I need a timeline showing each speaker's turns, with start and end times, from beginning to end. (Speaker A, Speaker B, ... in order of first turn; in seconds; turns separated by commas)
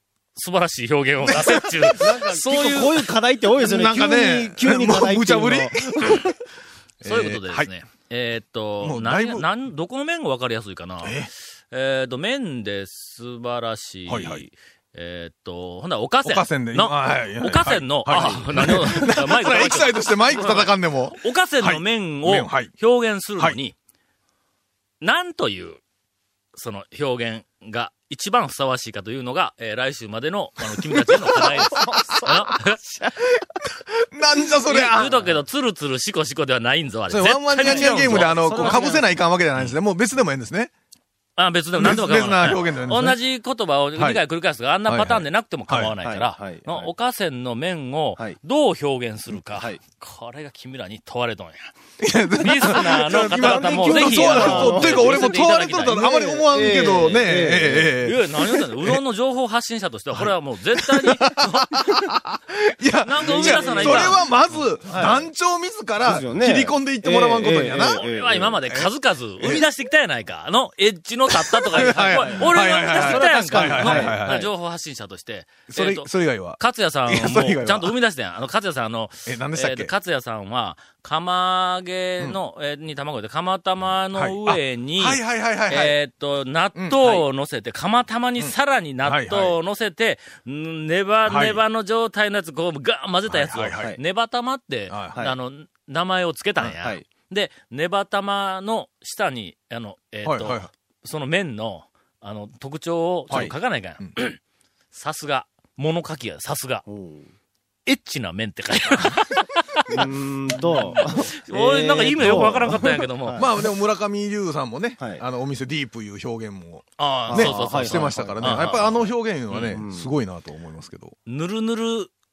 Speaker A: 0.3-3.1, Speaker B: 1.2-2.4, Speaker C: 2.1-6.2, Speaker B: 3.6-6.3, Speaker B: 7.0-7.7, Speaker A: 7.0-23.8, Speaker B: 8.8-9.5, Speaker B: 11.0-11.3, Speaker B: 14.1-14.4, Speaker B: 16.2-22.7, Speaker A: 25.0-25.8, Speaker A: 26.5-32.8, Speaker B: 30.9-31.8, Speaker C: 31.4-33.1, Speaker B: 34.1-35.3, Speaker A: 34.6-38.9, Speaker B: 37.1-40.7, Speaker C: 37.6-39.1, Speaker A: 41.4-51.7, Speaker B: 41.8-43.2, Speaker B: 44.0-44.2, Speaker B: 44.9-45.9, Speaker C: 46.0-46.9, Speaker C: 49.5-49.8, Speaker B: 52.0-59.0, Speaker A: 52.4-56.1, Speaker C: 52.6-58.0, Speaker A: 58.0-61.9, Speaker B: 60.1-68.1, Speaker A: 63.0-64.7, Speaker C: 63.2-64.2, Speaker C: 64.9-65.3, Speaker C: 66.0-68.6, Speaker A: 67.7-104.4, Speaker B: 68.7-69.6, Speaker B: 71.3-74.4, Speaker C: 71.7-74.5, Speaker B: 75.7-78.0, Speaker B: 79.3-79.9, Speaker B: 84.1-86.0, Speaker B: 86.8-87.2, Speaker B: 88.4-89.6, Speaker B: 91.2-91.6, Speaker B: 93.3-93.9, Speaker B: 94.9-95.2, Speaker B: 100.2-100.7, Speaker B: 103.3-104.1, Speaker A: 104.9-106.8, Speaker C: 106.9-107.3, Speaker A: 107.9-113.5, Speaker C: 109.9-113.6, Speaker B: 112.3-112.7, Speaker B: 113.4-121.2, Speaker C: 115.0-115.2, Speaker A: 117.0-119.8, Speaker C: 117.3-119.0, Speaker C: 119.7-120.1, Speaker A: 121.3-122.1